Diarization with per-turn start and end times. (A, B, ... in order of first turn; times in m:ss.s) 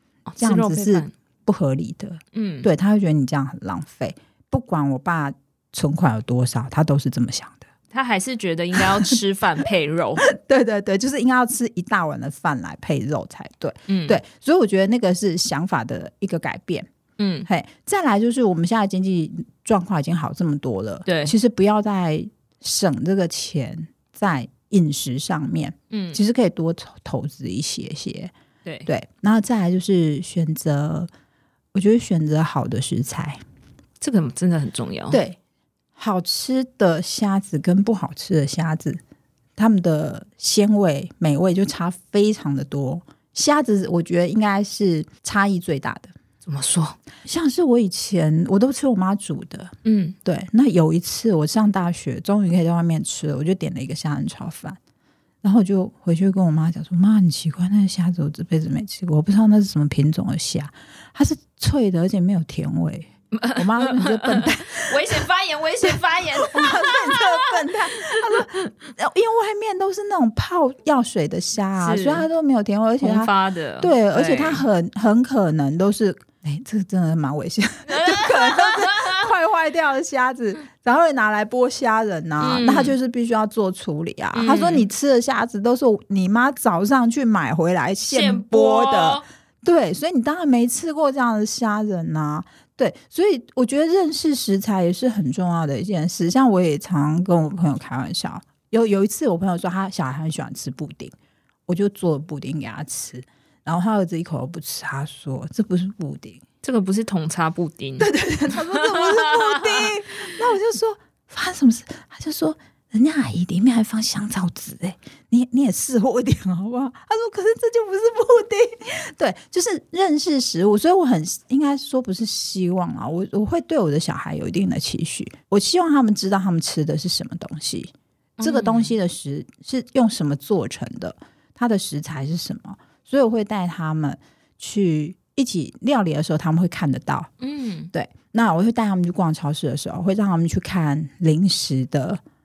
0:00.3-0:01.1 A
0:00.4-0:07.6 B
0:02.3-0:02.7 A
0:07.9-0:10.2 A
0:10.2-0:16.9 B
0:13.9-0:14.2 A
0:17.2-0:17.5 A
0:17.5-0:28.3 B
0:21.1-0:21.3 A
0:25.9-0:26.2 A
0:28.9-0:31.1 B
0:31.7-0:33.4 B
0:34.0-0:35.2 A
0:35.1-0:35.4 B
0:36.0-0:39.0 B
0:39.6-0:46.1 B
0:46.4-0:47.0 A
0:47.2-0:49.7 B
0:49.8-0:50.2 A
0:50.2-0:54.8 B
0:55.4-1:05.2 B
1:03.3-1:08.4 A
1:05.9-1:41.1 B
1:11.8-1:12.3 A
1:13.0-1:14.6 A
1:17.9-1:19.3 A
1:22.4-1:22.9 A
1:24.3-1:24.9 A
1:28.1-1:29.2 A
1:41.7-1:46.4 B
1:46.6-1:49.9 A
1:48.0-2:17.3 B
2:08.4-2:08.9 A
2:17.4-2:17.9 A
2:17.9-2:22.2 B